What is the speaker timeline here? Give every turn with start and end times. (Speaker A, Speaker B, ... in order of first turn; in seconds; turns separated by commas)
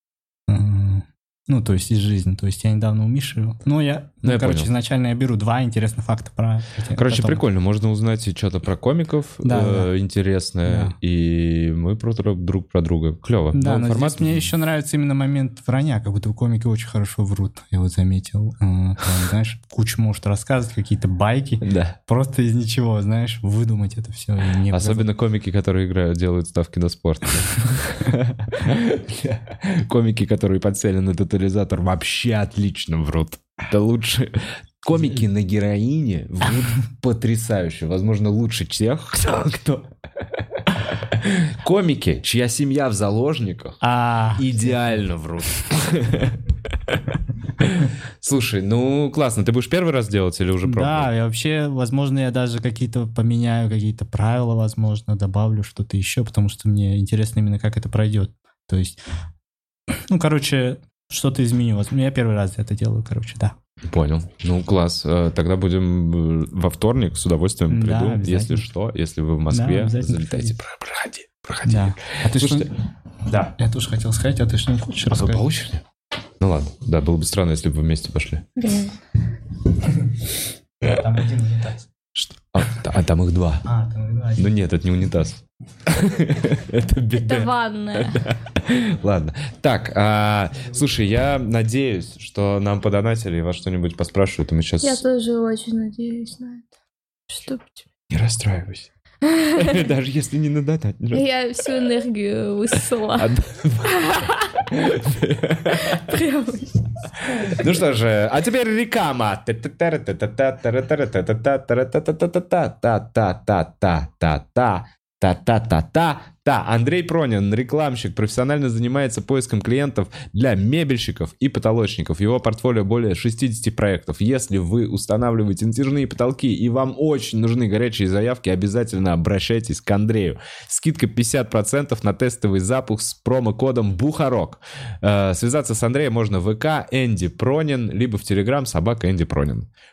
Speaker A: 0.5-7.4, Speaker B: 4.2-4.7, Speaker B: 6.9-14.5, Speaker A: 9.4-9.9, Speaker A: 10.6-10.9, Speaker A: 13.5-25.1, Speaker B: 21.6-21.9, Speaker B: 24.7-39.9, Speaker A: 34.9-35.2, Speaker B: 40.6-43.8, Speaker A: 43.8-44.9, Speaker B: 44.3-47.0, Speaker B: 47.6-51.1, Speaker A: 50.6-59.0, Speaker A: 59.9-63.5, Speaker B: 63.9-72.7, Speaker A: 67.7-68.7, Speaker A: 69.5-70.5, Speaker A: 71.6-72.7, Speaker B: 73.2-73.5, Speaker A: 73.6-75.5, Speaker B: 75.1-75.8, Speaker B: 76.4-78.5, Speaker C: 78.6-78.9, Speaker A: 80.8-81.8, Speaker B: 82.1-83.7, Speaker A: 83.6-84.6, Speaker B: 84.4-95.0, Speaker C: 87.2-88.3, Speaker C: 94.8-96.7, Speaker C: 97.3-97.8, Speaker B: 98.1-98.9, Speaker C: 99.2-99.8, Speaker B: 99.5-101.2, Speaker C: 101.1-103.3, Speaker B: 103.2-106.0, Speaker C: 103.8-104.6, Speaker C: 105.7-107.6, Speaker B: 107.4-139.7